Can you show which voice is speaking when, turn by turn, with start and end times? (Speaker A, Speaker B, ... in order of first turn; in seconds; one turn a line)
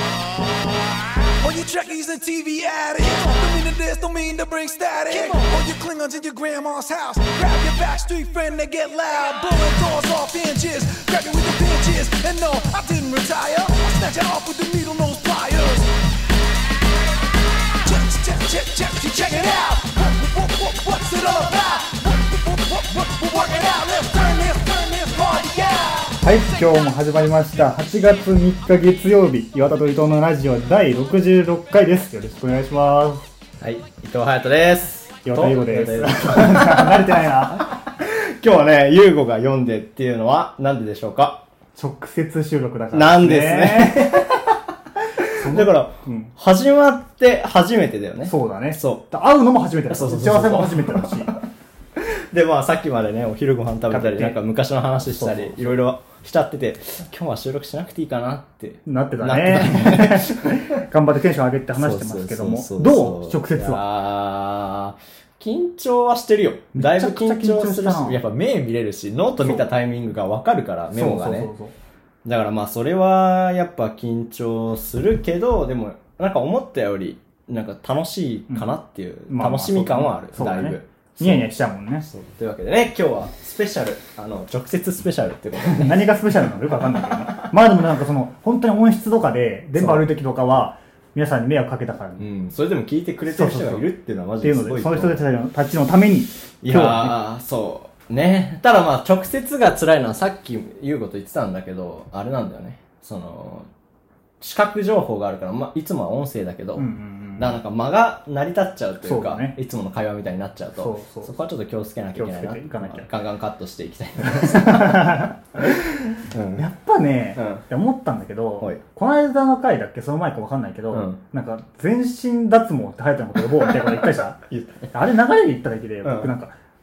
Speaker A: 1.3-15.9
Speaker A: 17.8-26.2
Speaker B: 26.2-33.3
Speaker C: 33.6-41.5
Speaker B: 35.2-37.7
Speaker B: 41.8-44.3
Speaker C: 42.9-44.4
Speaker C: 45.3-49.0
Speaker B: 45.3-46.3
Speaker B: 48.3-51.3
Speaker C: 49.9-51.4
Speaker C: 52.0-60.6
Speaker B: 53.9-54.4
Speaker B: 55.0-55.8
Speaker B: 58.9-63.8
Speaker C: 61.8-71.5
Speaker B: 66.8-68.2
Speaker B: 70.9-71.7
Speaker C: 72.2-81.5
Speaker B: 79.3-82.1
Speaker C: 82.1-86.2
Speaker B: 85.6-92.3
Speaker C: 89.8-90.1
Speaker C: 92.2-95.2
Speaker B: 93.3-93.9
Speaker B: 94.4-97.2
Speaker C: 96.6-103.7
Speaker C: 104.4-115.7
Speaker B: 106.8-107.6
Speaker B: 109.0-109.6
Speaker B: 110.8-111.3
Speaker B: 112.2-113.1
Speaker B: 114.2-115.8
Speaker C: 116.3-116.6
Speaker B: 116.5-124.4
Speaker C: 117.4-117.6
Speaker C: 120.9-121.2
Speaker C: 123.7-124.9
Speaker B: 124.9-126.5
Speaker C: 126.0-126.3